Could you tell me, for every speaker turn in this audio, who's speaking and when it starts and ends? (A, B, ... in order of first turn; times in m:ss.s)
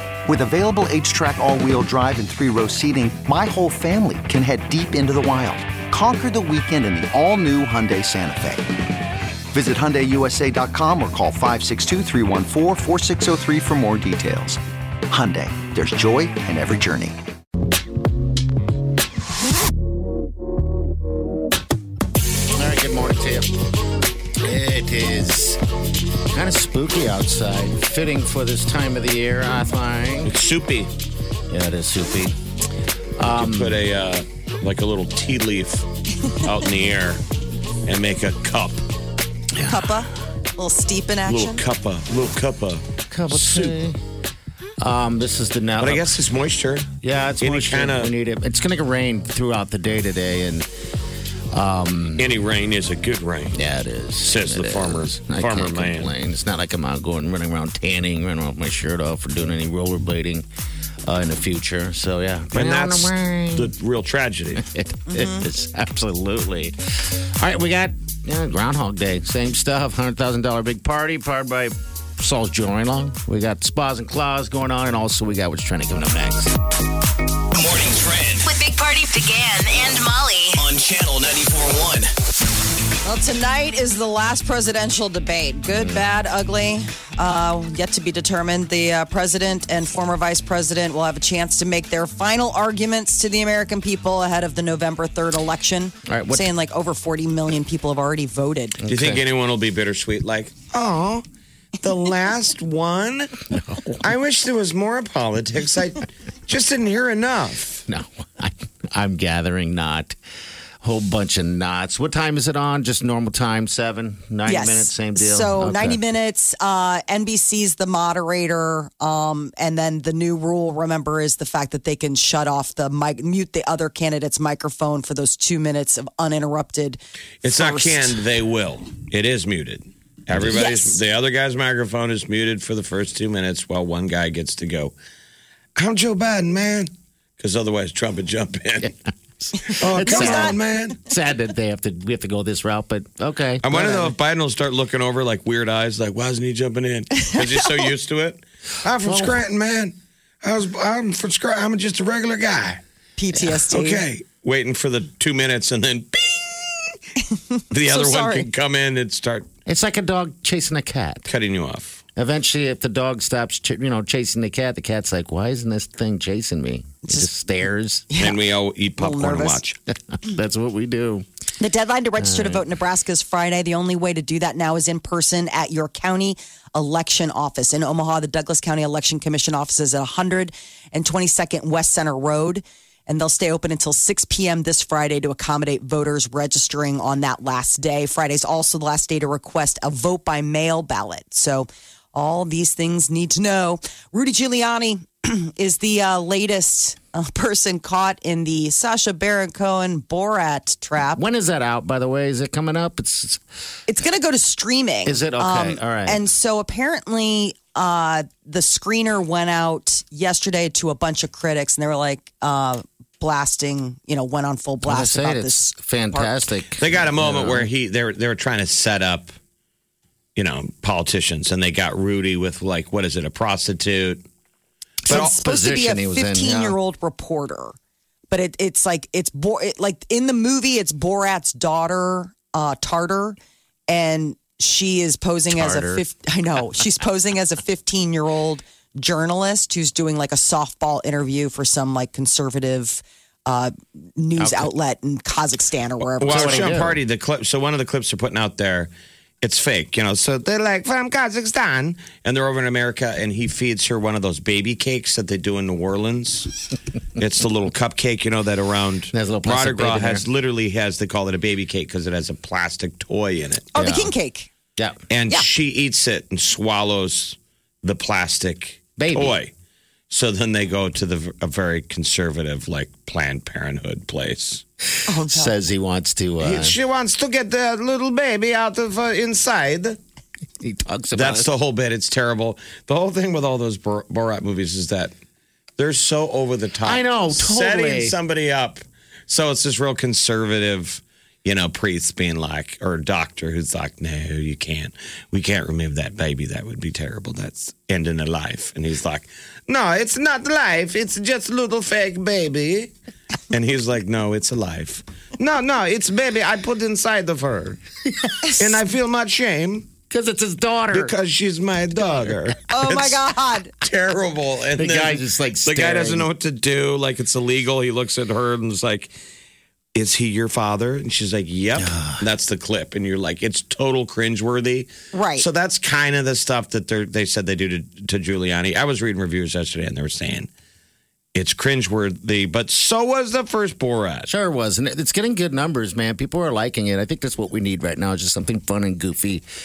0:00.2-0:08.7 A
0:09.5-0:17.2 A
0:22.5-0:23.5 B
0:24.4-0:25.6 B
0:26.3-0:30.3 B
0:30.2-0:30.9 C
0:31.5-0:32.4 B
0:33.2-0:33.8 B
0:33.4-0:35.9 C
0:36.4-0:37.2 C
0:37.8-0:38.8 C
0:39.6-0:41.6 D
0:41.2-0:43.8 C
0:43.1-0:44.0 B
0:44.8-0:46.2 B
0:45.8-0:48.1 C
0:47.0-0:50.7 B
0:51.5-0:52.3 B
0:52.2-0:53.6 C
0:53.5-1:00.4 B
0:54.2-0:56.1 C
1:01.0-1:03.7 B
1:02.5-1:04.6 C
1:04.5-1:16.5 B
1:05.1-1:05.5 D
1:17.5-1:18.5 E
1:18.4-1:20.6 F
1:20.5-1:22.1 E
1:23.0-1:38.8 D
1:25.7-1:26.0 B
1:36.0-1:36.5 B
1:38.8-1:39.2 B
1:38.9-1:41.2 C
1:41.8-1:47.8 C
1:43.5-1:44.0 B
1:47.9-1:50.1 B
1:50.8-1:56.0 B
1:54.4-2:08.1 D
2:07.4-2:14.9 C
2:10.4-2:11.0 D
2:15.8-2:18.9 C
2:19.5-2:24.1 B
2:19.7-2:21.0 C
2:20.0-2:20.6 D
2:23.6-2:32.8 C
2:29.0-2:29.4 B
2:33.2-2:34.0 D
2:33.7-2:37.0 C
2:37.7-2:39.5 C
2:37.8-2:38.5 D
2:39.6-2:41.3 B
2:41.3-2:42.0 C
2:42.2-2:48.1 B
2:48.1-2:48.4 D
2:48.2-2:49.8 C
2:49.0-2:49.6 D
2:50.1-2:51.2 B
2:51.6-3:21.2 D
2:52.2-2:52.6 B
3:21.1-3:23.4 B
3:23.9-3:36.4 D
3:25.0-3:26.2 B
3:34.8-3:37.7 B
3:36.8-3:39.3 C
3:40.4-3:44.2 C
3:45.0-3:46.8 B
3:45.1-3:47.8 D
3:48.3-3:53.4 D
3:53.9-4:06.7 D
3:55.5-3:56.0 B
4:04.4-4:04.7 B
4:06.2-4:08.9 C
4:06.2-4:07.0 B
4:09.4-4:16.5 C
4:17.2-4:23.7 C
4:19.1-4:20.2 B
4:23.7-4:24.5 D
4:23.8-4:24.1 B
4:25.1-4:29.5 C
4:29.0-4:29.4 B
4:30.1-4:34.6 C
4:35.1-4:35.5 D
4:35.2-4:36.8 B
4:36.4-4:40.0 C
4:40.6-4:41.5 B
4:41.1-4:45.1 C
4:45.8-5:02.9 C
4:46.8-4:48.2 B
5:03.5-5:07.8 C
5:08.6-5:09.9 C
5:10.1-5:11.1 B
5:10.9-5:13.3 C
5:12.0-5:12.5 B
5:12.7-5:13.7 D
5:13.8-5:19.1 C
5:14.8-5:16.3 B
5:19.9-5:30.5 C
5:21.7-5:22.2 B
5:25.1-5:25.4 D
5:31.3-5:34.3 C
5:34.2-5:39.4 B